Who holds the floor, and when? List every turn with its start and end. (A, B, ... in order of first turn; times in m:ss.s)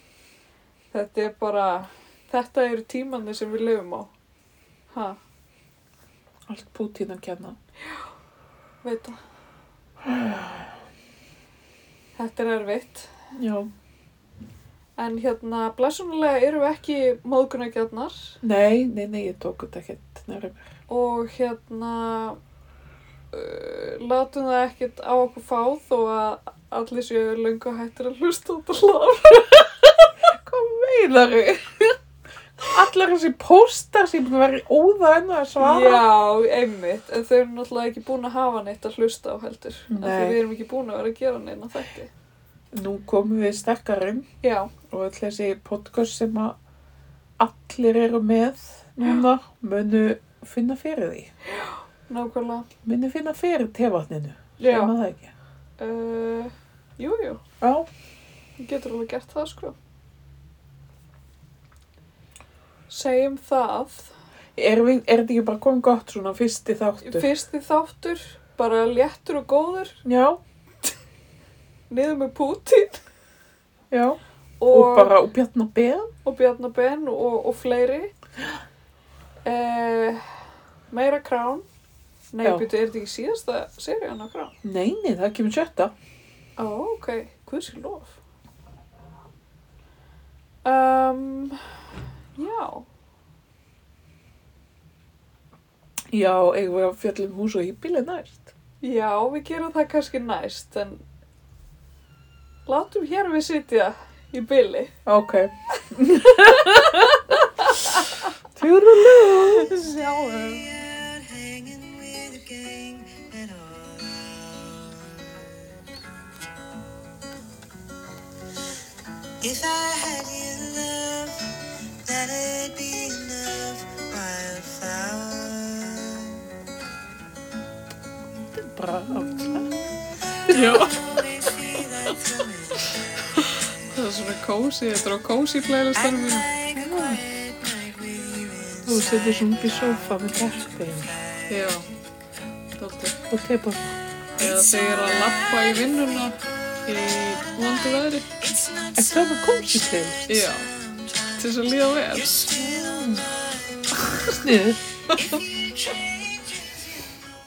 0:00.9-0:04.1 A
0:04.9-0:05.2 A
0:06.5-0:07.6 B
0:08.8-0:09.2 A
0:10.0-0:10.6 B
0:12.2-0:13.1 A
0:13.3-0:13.7 B
0:15.0-0:18.4 A
0:18.4-0:20.7 B
0:20.9-0:22.4 A
0:23.3-0:29.6 A
0:29.5-0:32.0 B
0:32.6-0:36.0 B
0:35.6-0:42.1 A
0:39.9-0:40.4 B
0:42.7-0:44.3 B
0:44.4-0:44.7 A
0:44.9-0:46.6 B
0:47.4-0:51.3 B
0:51.4-0:52.7 A
0:52.8-0:55.3 B
0:54.6-0:54.9 A
0:55.8-0:57.4 A
0:57.6-0:57.9 B
0:58.6-0:59.8 A
1:02.9-1:04.1 A
1:04.6-1:07.3 B
1:07.0-1:10.0 A
1:10.0-1:10.4 B
1:11.9-1:13.0 A
1:13.9-1:14.2 B
1:14.6-1:15.1 A
1:14.7-1:16.1 B
1:16.2-1:18.1 A
1:19.4-1:20.2 A
1:20.9-1:21.6 A
1:22.3-1:24.6 A
1:22.4-1:22.7 B
1:24.6-1:25.9 B
1:26.6-1:28.2 A
1:30.6-1:31.7 A
1:32.4-1:32.8 A
1:36.1-1:38.5 B
1:38.8-1:41.0 A
1:42.6-1:44.9 A
1:45.0-1:47.2 B
1:45.7-1:48.3 A
1:48.6-1:49.7 B
1:49.5-1:50.6 A
1:49.6-1:54.9 C
1:59.4-2:06.4 C
2:08.5-2:09.7 B
2:10.3-2:13.2 C
2:10.5-2:11.0 A
2:13.3-2:16.6 A
2:15.9-2:19.6 C
2:16.7-2:17.2 B
2:18.8-2:21.1 B
2:20.9-2:21.8 C
2:21.5-2:21.9 A
2:22.8-2:23.2 A
2:23.3-2:23.9 B
2:24.4-2:28.3 A
2:24.4-2:34.3 C
2:29.0-2:30.2 B
2:30.3-2:30.7 A
2:31.4-2:32.5 A
2:32.5-2:33.2 B
2:34.3-2:35.4 B
2:35.1-2:37.2 C